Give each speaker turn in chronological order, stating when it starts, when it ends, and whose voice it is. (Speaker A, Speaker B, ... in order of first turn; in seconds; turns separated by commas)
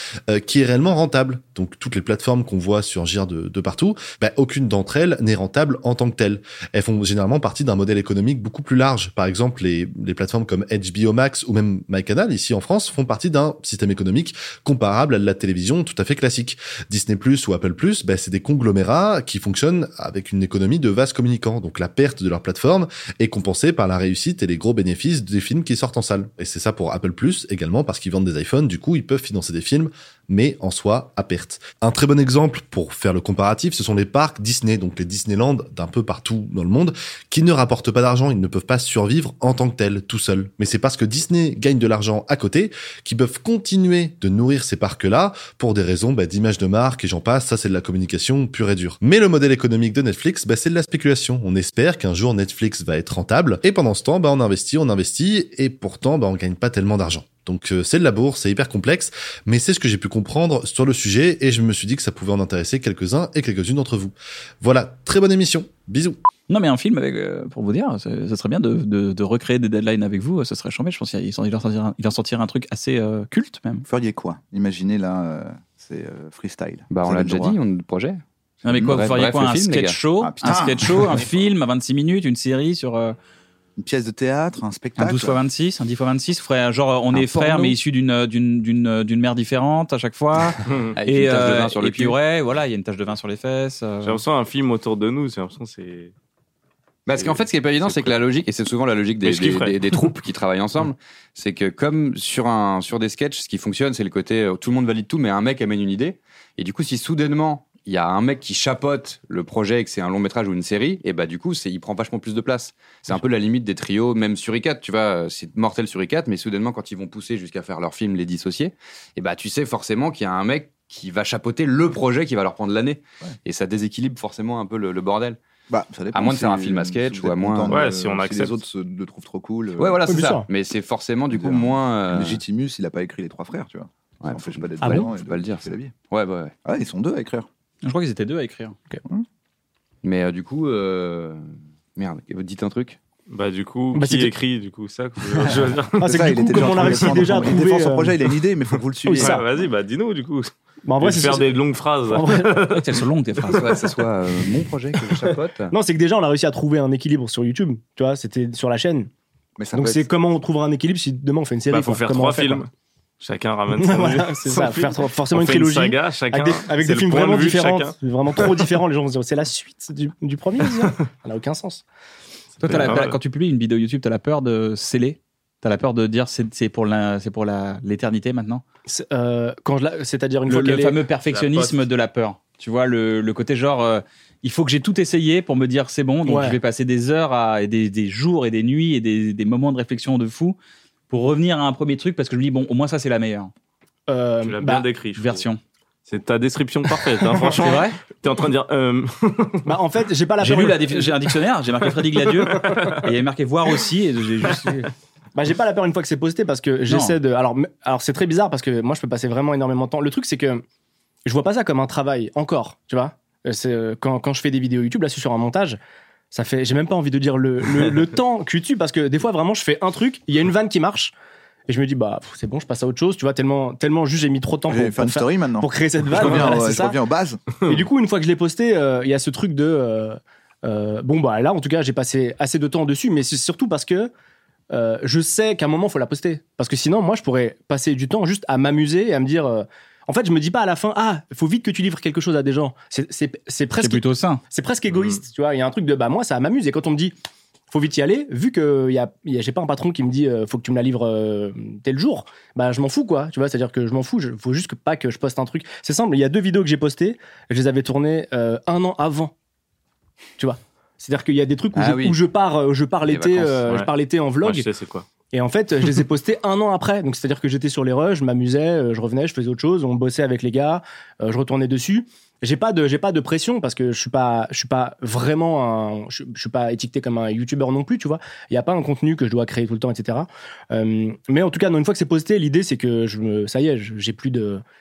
Speaker A: 0.3-66.2, Speaker B: 66.5-73.8, Speaker C: 73.9-77.6, Speaker D: 76.9-78.2, Speaker B: 78.6-83.2, Speaker C: 78.7-79.0, Speaker D: 78.8-80.0, Speaker C: 80.2-81.2, Speaker C: 83.8-85.4, Speaker B: 85.0-94.2, Speaker D: 87.1-87.7, Speaker E: 90.7-90.9, Speaker D: 91.0-92.2, Speaker E: 94.0-96.1, Speaker D: 97.1-125.4, Speaker E: 99.2-100.1, Speaker C: 125.7-130.0, Speaker D: 126.1-127.8, Speaker E: 127.7-128.6, Speaker D: 129.8-132.4, Speaker F: 130.1-130.5, Speaker C: 131.3-135.9, Speaker D: 134.2-136.5, Speaker F: 134.8-135.1, Speaker C: 136.6-137.5, Speaker B: 137.8-138.8, Speaker D: 140.0-143.0, Speaker E: 143.3-146.1, Speaker F: 143.9-144.3, Speaker F: 145.3-148.2, Speaker C: 146.0-149.4, Speaker E: 146.8-147.1, Speaker F: 149.1-149.4, Speaker E: 149.2-153.0, Speaker F: 150.9-151.5, Speaker F: 152.1-152.6, Speaker B: 152.7-153.7, Speaker D: 153.5-155.7, Speaker F: 155.7-159.1, Speaker C: 159.6-160.1, Speaker F: 159.7-162.6, Speaker E: 161.7-162.7, Speaker E: 163.2-168.7, Speaker F: 163.8-171.8, Speaker E: 170.7-170.9, Speaker B: 172.6-178.6, Speaker E: 172.7-173.2, Speaker F: 178.9-181.0, Speaker B: 180.5-190.6, Speaker E: 181.3-181.8, Speaker F: 186.3-186.6, Speaker B: 191.1-193.5, Speaker F: 194.1-194.9, Speaker E: 194.4-195.4, Speaker B: 195.2-195.6, Speaker E: 196.1-199.7, Speaker F: 197.3-197.7, Speaker B: 197.6-198.0, Speaker F: 199.7-201.1, Speaker B: 200.4-204.8, Speaker F: 202.4-203.0, Speaker E: 202.5-203.0, Speaker F: 204.5-210.6, Speaker B: 206.9-207.2, Speaker F: 211.2-215.8, Speaker F: 216.3-221.1, Speaker F: 221.7-227.0, Speaker C: 224.7-227.4, Speaker F: 227.7-234.1, Speaker F: 234.7-247.1, Speaker B: 243.8-244.4, Speaker E: 244.9-245.2, Speaker F: 247.7-259.3, Speaker F: 260.4-264.7, Speaker D: 261.8-262.2, Speaker D: 263.1-263.7, Speaker E: 264.4-265.1, Speaker F: 265.3-284.6